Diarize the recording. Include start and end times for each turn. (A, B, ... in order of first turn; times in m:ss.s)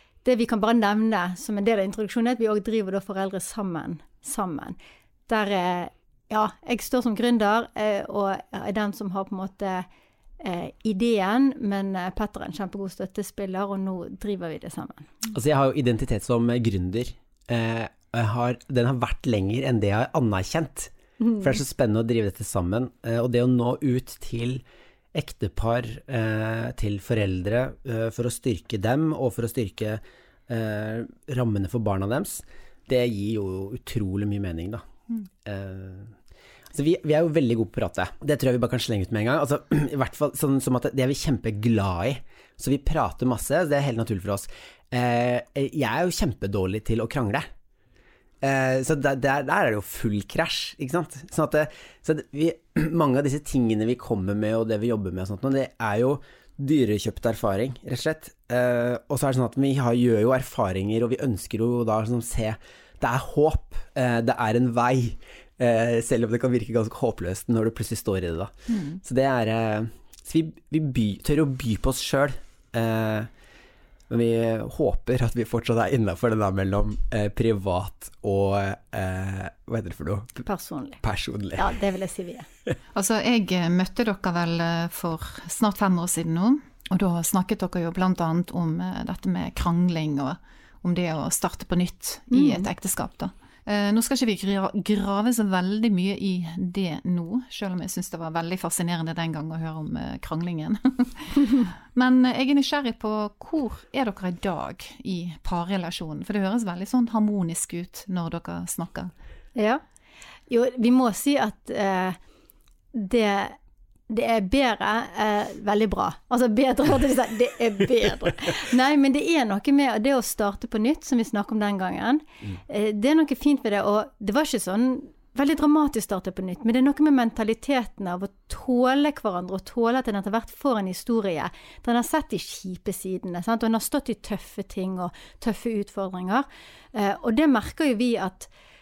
0:00.2-0:04.8 A
0:05.3-0:09.9 A
0:10.4-0:15.1 A
0:15.3-0:24.6 B
0:21.2-0:21.5 A
0:25.1-0:34.9 B
0:35.4-0:36.1 B
0:36.7-0:47.5 B
0:48.4-1:13.3 B
1:08.7-1:09.0 C
1:14.1-1:20.5 B
1:20.5-1:21.0 A
1:21.0-1:21.7 B
1:21.6-1:22.5 A
1:22.9-1:49.1 C
1:32.3-1:32.7 A
1:49.6-1:49.8 A
1:50.5-1:52.2 A
1:52.9-1:53.6 A
1:54.1-2:18.5 A